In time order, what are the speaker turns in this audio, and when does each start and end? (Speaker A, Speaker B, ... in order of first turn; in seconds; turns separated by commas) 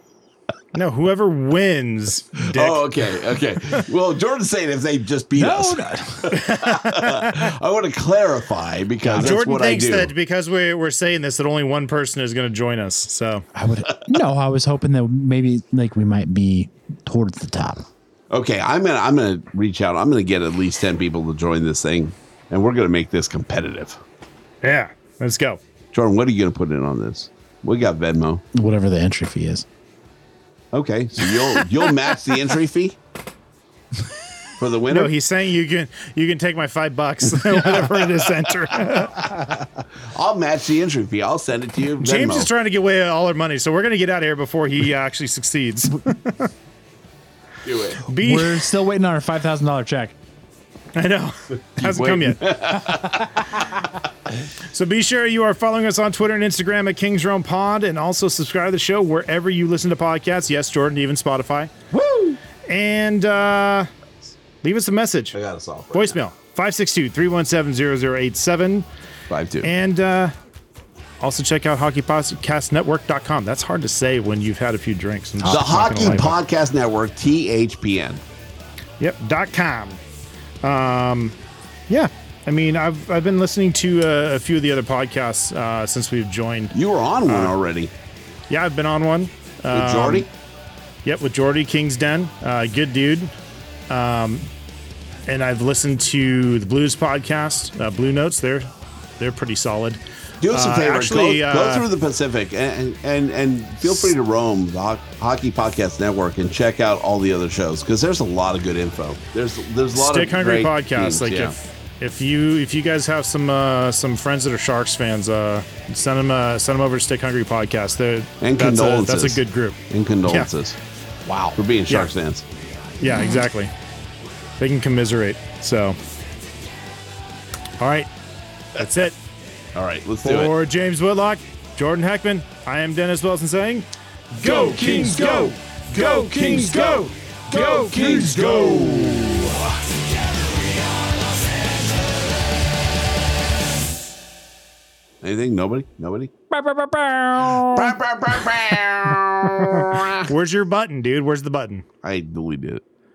Speaker A: 0.7-2.9, Speaker B: 2.5-10.1, Speaker C: 5.3-6.4, Speaker C: 9.0-9.3, Speaker A: 9.2-13.4, Speaker C: 13.5-17.8, Speaker B: 18.3-24.0, Speaker A: 24.6-25.6, Speaker B: 25.9-28.4, Speaker C: 28.5-29.6, Speaker B: 30.7-33.0, Speaker B: 34.6-35.1, Speaker A: 34.9-39.5, Speaker B: 40.1-42.5, Speaker A: 42.0-46.5, Speaker B: 47.6-48.0, Speaker A: 48.0-48.7, Speaker C: 48.2-50.1, Speaker A: 50.9-52.5, Speaker B: 51.8-53.4, Speaker A: 54.7-61.7, Speaker C: 61.9-62.4, Speaker A: 62.7-63.9, Speaker A: 64.6-65.4, Speaker B: 65.3-66.2, Speaker A: 65.9-68.8, Speaker B: 69.3-69.7, Speaker A: 69.6-70.3, Speaker A: 71.2-76.4, Speaker C: 75.4-76.3, Speaker B: 75.4-78.2, Speaker A: 79.0-80.0, Speaker A: 80.6-81.3, Speaker A: 81.9-86.7, Speaker B: 86.7-87.9, Speaker A: 87.2-87.5, Speaker A: 88.5-90.3, Speaker B: 89.7-90.3, Speaker A: 91.0-93.3, Speaker A: 93.9-94.5, Speaker A: 95.3-98.7, Speaker A: 99.2-100.0, Speaker B: 100.4-111.5, Speaker A: 100.5-101.8, Speaker A: 109.9-120.5, Speaker B: 118.4-120.8, Speaker C: 121.2-121.6, Speaker B: 121.5-122.4, Speaker A: 123.0-123.7, Speaker A: 124.6-126.0, Speaker A: 127.8-128.1, Speaker A: 128.7-129.1, Speaker B: 129.7-130.5, Speaker A: 130.2-133.8, Speaker B: 134.4-135.2, Speaker A: 134.4-135.6, Speaker C: 134.5-135.5, Speaker B: 135.9-139.1, Speaker C: 136.2-137.0, Speaker A: 136.2-138.4, Speaker C: 137.6-139.4, Speaker B: 145.2-146.3, Speaker C: 146.5-147.9, Speaker B: 147.6-150.3, Speaker A: 150.2-151.8, Speaker B: 152.0-152.8